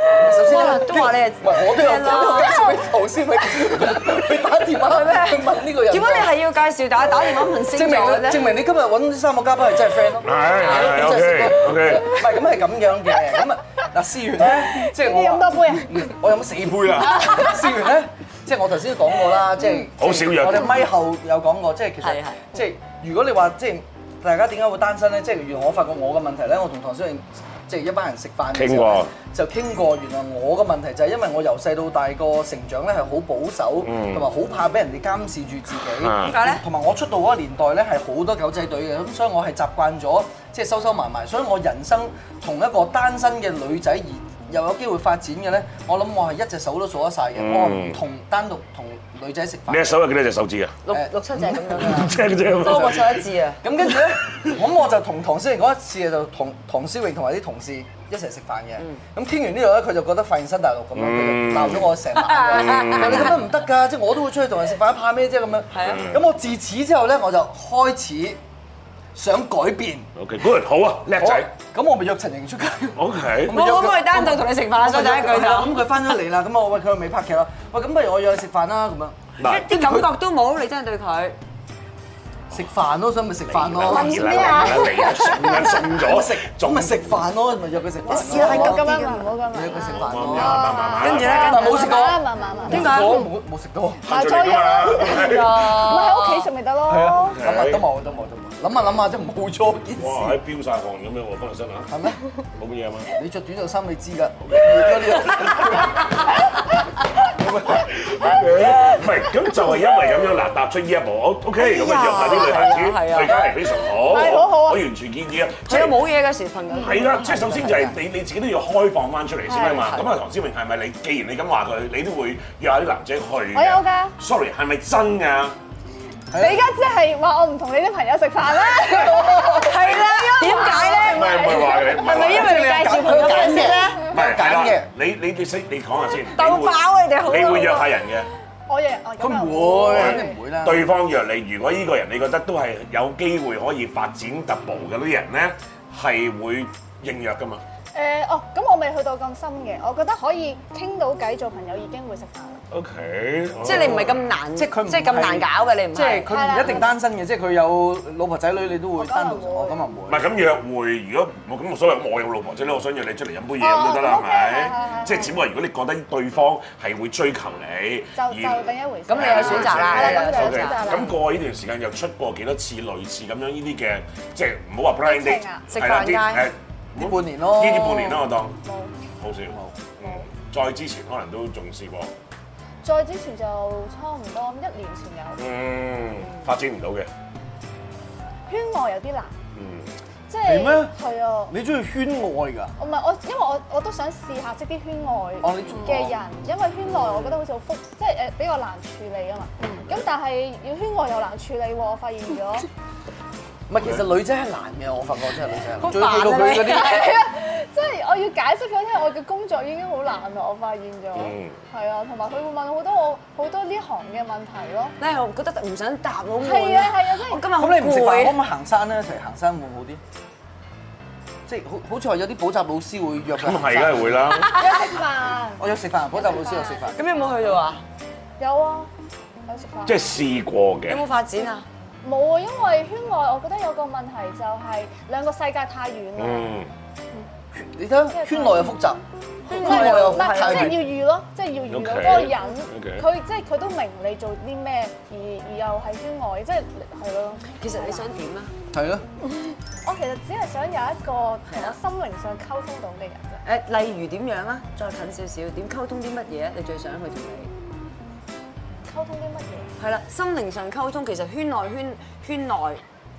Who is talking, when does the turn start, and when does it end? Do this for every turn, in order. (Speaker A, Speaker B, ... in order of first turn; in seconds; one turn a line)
Speaker A: 0.2-6.3
Speaker B: 0.3-2.8
Speaker B: 4.8-8.5
Speaker A: 7.6-49.9
Speaker C: 10.2-12.2
Speaker B: 10.7-11.4
Speaker D: 14.6-16.1
Speaker C: 20.0-20.9
Speaker B: 22.0-22.4
Speaker C: 28.5-29.1
Speaker C: 33.8-34.3
Speaker C: 36.0-36.4
Speaker B: 36.2-36.6
Speaker C: 47.4-48.0
Speaker C: 49.7-50.8
Speaker B: 50.9-53.6
Speaker A: 50.9-68.4
Speaker C: 51.8-53.2
Speaker C: 61.0-63.4
Speaker B: 62.2-63.3
Speaker B: 65.7-66.1
Speaker C: 65.8-66.2
Speaker A: 69.2-70.1
Speaker C: 70.2-71.5
Speaker A: 71.2-80.1
Speaker C: 73.0-73.5
Speaker B: 73.5-75.9
Speaker C: 79.4-79.7
Speaker B: 79.4-81.4
Speaker A: 82.5-88.9
Speaker C: 83.5-87.0
Speaker D: 83.8-85.8
Speaker D: 88.0-93.1
Speaker B: 88.1-89.4
Speaker A: 89.5-90.7
Speaker C: 89.9-91.7
Speaker B: 91.0-92.1
Speaker A: 91.2-94.0
Speaker B: 92.7-93.3
Speaker C: 94.1-95.8
Speaker D: 94.1-97.4
Speaker B: 95.1-96.5
Speaker A: 96.9-100.4
Speaker C: 97.4-97.9
Speaker C: 100.0-101.9
Speaker A: 101.9-102.2
Speaker C: 102.6-103.2
Speaker A: 103.2-106.0
Speaker C: 104.4-106.0
Speaker C: 107.2-116.0
Speaker B: 111.6-113.5
Speaker D: 113.3-114.8
Speaker B: 115.7-118.0
Speaker C: 116.7-125.6
Speaker B: 119.5-120.1
Speaker D: 123.5-124.2
Speaker A: 126.3-126.6
Speaker D: 126.3-131.5
Speaker A: 128.8-129.7
Speaker B: 129.5-134.1
Speaker C: 129.9-132.8
Speaker A: 132.0-134.9
Speaker C: 134.1-138.3
Speaker B: 136.4-137.9
Speaker D: 138.7-140.4
Speaker A: 139.2-140.9
Speaker C: 139.9-147.6
Speaker D: 147.9-152.6
Speaker C: 152.7-154.4
Speaker B: 153.6-156.5
Speaker A: 153.7-160.3
Speaker D: 156.3-157.0
Speaker D: 159.0-159.8
Speaker C: 160.1-178.6
Speaker D: 163.6-165.3
Speaker D: 168.2-171.2
Speaker B: 169.1-171.0
Speaker D: 175.0-175.7
Speaker B: 175.7-176.4
Speaker A: 177.0-178.2
Speaker D: 178.6-178.9
Speaker C: 179.2-182.1
Speaker D: 180.0-180.2
Speaker D: 182.8-185.4
Speaker C: 185.4-187.1
Speaker D: 188.5-189.3
Speaker C: 189.6-189.9
Speaker D: 190.3-191.5
Speaker A: 190.4-190.9
Speaker A: 191.5-192.7
Speaker D: 192.8-202.7
Speaker A: 195.4-196.2
Speaker C: 197.0-197.3
Speaker A: 203.7-207.2
Speaker B: 205.8-207.2
Speaker D: 206.7-214.9
Speaker C: 211.2-211.6
Speaker B: 215.0-218.4
Speaker D: 216.4-217.5
Speaker A: 217.6-220.0
Speaker A: 221.5-224.3
Speaker C: 223.3-224.5
Speaker B: 224.4-224.8
Speaker D: 224.5-227.4
Speaker A: 225.6-227.0
Speaker B: 226.9-227.8
Speaker D: 228.4-228.9
Speaker D: 229.5-230.0
Speaker C: 229.9-231.0
Speaker B: 230.9-231.7
Speaker D: 232.0-236.6
Speaker C: 236.2-236.7
Speaker A: 237.6-240.8
Speaker D: 238.1-238.8
Speaker B: 239.5-240.8
Speaker D: 239.5-248.1
Speaker C: 241.7-243.1
Speaker B: 247.5-248.5
Speaker A: 248.7-249.0
Speaker D: 249.3-253.4
Speaker B: 251.5-251.8
Speaker B: 253.4-257.5
Speaker D: 258.9-259.7
Speaker B: 259.8-262.8